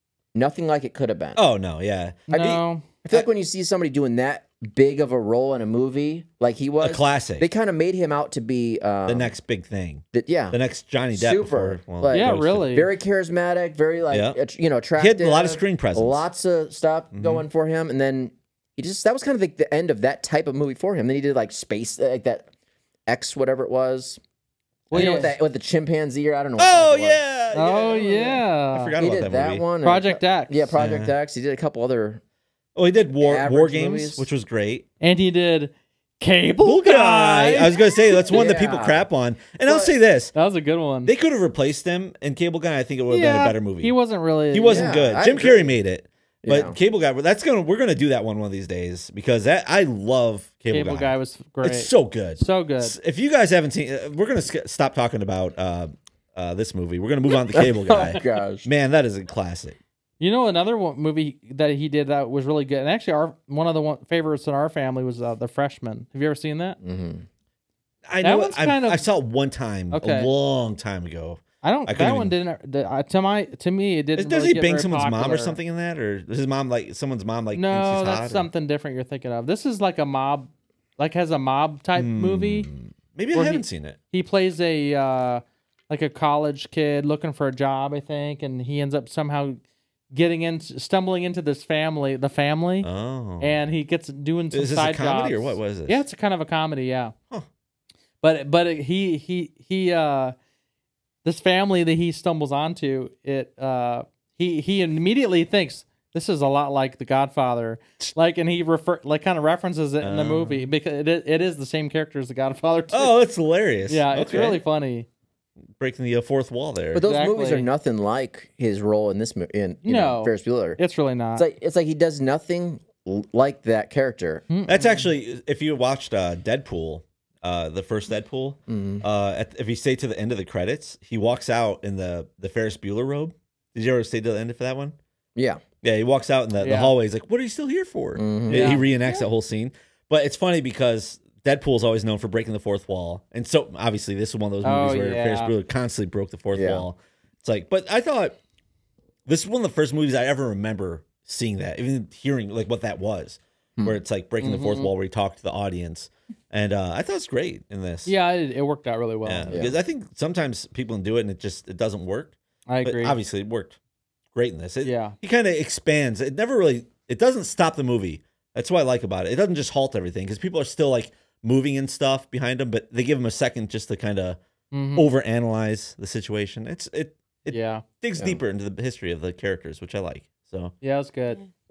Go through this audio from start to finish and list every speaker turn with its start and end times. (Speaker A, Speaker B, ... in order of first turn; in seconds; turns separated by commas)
Speaker A: 0.3-1.4, Speaker B: 1.4-3.3, Speaker C: 2.3-2.8, Speaker A: 2.3-9.3, Speaker B: 6.8-7.5, Speaker B: 9.1-12.7, Speaker A: 10.1-10.6, Speaker A: 11.1-22.5, Speaker C: 12.1-12.9, Speaker B: 14.1-14.4, Speaker B: 15.0-16.2, Speaker B: 17.1-17.4, Speaker A: 23.1-24.2, Speaker A: 24.9-27.2, Speaker C: 24.9-25.3, Speaker B: 24.9-25.3, Speaker B: 26.6-29.6, Speaker C: 27.5-28.9, Speaker A: 29.0-32.2, Speaker C: 29.8-30.7, Speaker B: 30.8-31.1, Speaker B: 32.8-34.9, Speaker A: 33.2-34.3, Speaker C: 35.0-38.2, Speaker B: 36.6-40.3, Speaker A: 38.3-39.1, Speaker A: 39.6-39.9, Speaker C: 40.3-41.1, Speaker B: 41.0-44.0, Speaker C: 43.1-45.0, Speaker B: 44.5-59.8, Speaker A: 44.7-45.8, Speaker A: 46.4-46.8, Speaker C: 50.7-53.0, Speaker A: 57.5-58.7, Speaker C: 60.2-66.8, Speaker A: 66.8-67.3, Speaker B: 68.1-72.3, Speaker C: 68.2-69.0, Speaker C: 69.9-70.3, Speaker C: 71.6-75.6, Speaker B: 74.2-78.5, Speaker C: 77.5-82.7, Speaker B: 82.0-84.0, Speaker C: 83.3-89.6, Speaker C: 90.1-92.9, Speaker B: 92.8-93.6, Speaker C: 93.4-97.2, Speaker B: 94.5-96.0, Speaker C: 98.2-100.3, Speaker C: 101.2-113.1, Speaker B: 110.0-110.7, Speaker B: 112.9-114.6, Speaker C: 113.9-115.1, Speaker B: 115.8-117.0, Speaker A: 116.9-120.8, Speaker C: 117.0-117.7, Speaker C: 119.8-121.5, Speaker A: 121.3-124.5, Speaker C: 124.5-125.1, Speaker B: 124.7-135.0, Speaker A: 128.7-129.1, Speaker A: 135.4-135.6, Speaker B: 135.8-148.4, Speaker C: 136.6-136.9, Speaker A: 138.2-138.8, Speaker C: 138.5-138.9, Speaker C: 144.6-145.5, Speaker A: 146.5-146.9, Speaker B: 149.3-158.1, Speaker C: 154.4-154.9, Speaker C: 158.1-159.6, Speaker B: 159.2-163.8, Speaker A: 159.5-159.8, Speaker C: 162.7-163.2, Speaker B: 164.3-174.4, Speaker C: 164.8-165.2, Speaker C: 174.7-175.1, Speaker B: 175.0-180.7, Speaker C: 177.5-177.8, Speaker C: 180.8-181.4